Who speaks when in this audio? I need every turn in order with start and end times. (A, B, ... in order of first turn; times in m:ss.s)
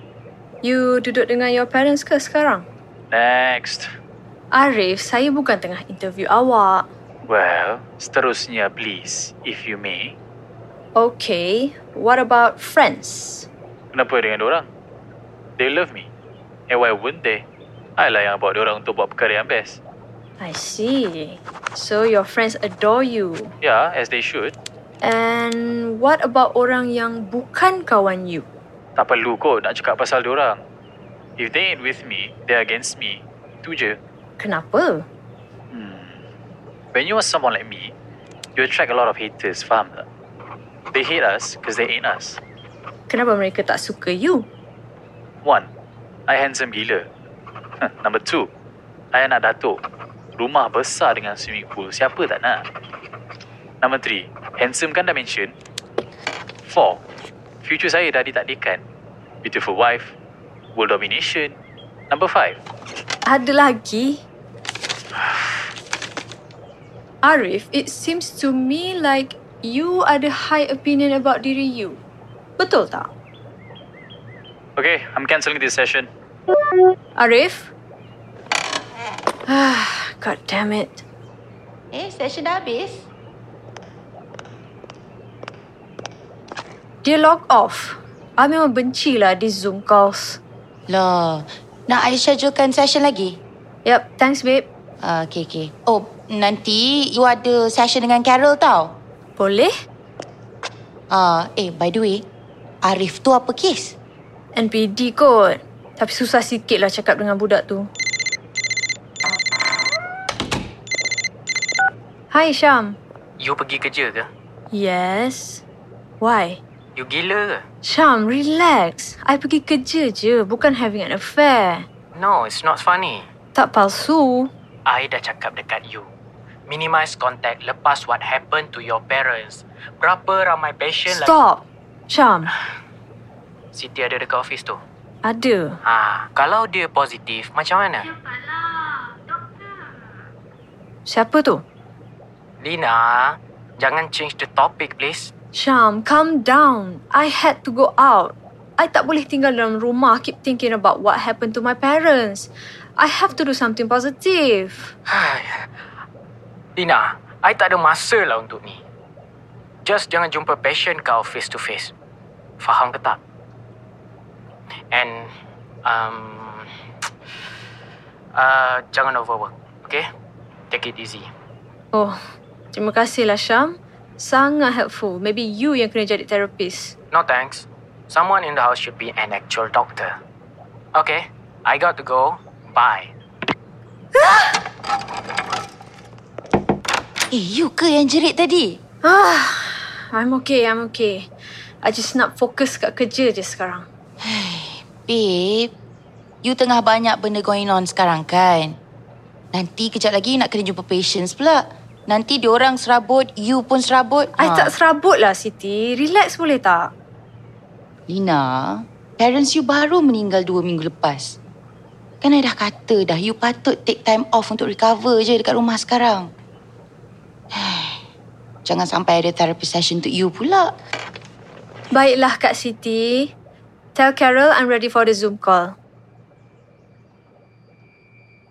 0:00.6-0:02.7 A
0:03.1-0:03.9 B
0:04.5-0:06.9 A
0:07.2-0:10.2 B
0:11.0-0:13.5 A
0:13.9-0:14.7 B
0:15.6-0:16.1 B
0:16.7-0:17.4 B
0:18.0-0:19.8 B
0:20.4-0:23.5 A
0:23.6-0:24.5 B
0:25.0-0:28.5 A
0:29.0-0:30.6 B
0:31.4-0:34.0 B
0:34.4-0:35.0 A
0:35.7-0:36.2 B
0:36.9-0:37.9 B
0:38.6-0:40.0 B
0:40.9-0:42.4 B
0:43.1-0:44.5 A
0:46.3-0:47.0 B
0:47.8-0:48.5 B
0:49.1-0:49.8 B
0:50.4-0:52.6 B
0:53.8-0:55.5 B
0:56.6-0:57.0 B
0:57.6-0:58.8 B
0:59.4-1:00.1 B
1:00.7-1:01.6 B
1:02.1-1:02.6 B
1:03.2-1:04.2 A
1:07.2-1:12.0 A
1:12.6-1:13.1 A
1:14.8-1:16.1 B
1:17.2-1:17.7 A
1:19.5-1:21.0 A
1:21.9-1:23.1 C
1:27.0-1:30.4 A
1:30.9-1:33.4 C
1:33.8-1:34.7 A
1:35.0-1:38.9 C
1:39.4-1:39.7 A
1:41.1-1:42.2 C
1:42.8-1:43.9 C
1:44.5-1:47.9 A
1:52.3-1:53.0 A
1:53.4-1:54.2 D
1:54.7-1:55.6 A
1:56.2-1:56.6 A
1:57.0-1:57.6 D
1:57.8-2:01.9 A
2:02.2-2:03.2 D
2:03.5-2:04.5 A
2:04.9-2:06.1 D
2:06.7-2:11.3 D
2:11.1-2:12.5 A
2:13.7-2:14.8 D
2:15.2-2:15.8 A
2:15.9-2:18.0 D
2:21.0-2:21.6 A
2:22.6-2:25.3 D
2:25.5-2:34.9 A
2:36.8-2:38.8 D
2:39.9-2:41.9 D
2:42.6-2:43.2 D
2:44.9-2:45.2 D
2:45.9-2:46.4 D
2:48.4-2:50.0 D
2:50.7-2:51.2 D
2:51.9-2:52.2 A
2:52.7-2:56.9 A
2:57.1-3:00.0 D
3:01.7-3:03.0 D
3:04.2-3:04.5 A
3:07.3-3:08.8 C
3:09.0-3:11.3 A
3:11.8-3:13.9 A
3:14.2-3:15.7 C
3:16.4-3:18.8 C
3:19.5-3:24.7 C
3:24.4-3:26.9 A
3:28.1-3:31.4 C
3:32.2-3:36.3 C
3:37.6-3:38.0 C
3:38.6-3:40.7 C
3:41.9-3:43.3 A
3:43.9-3:45.7 A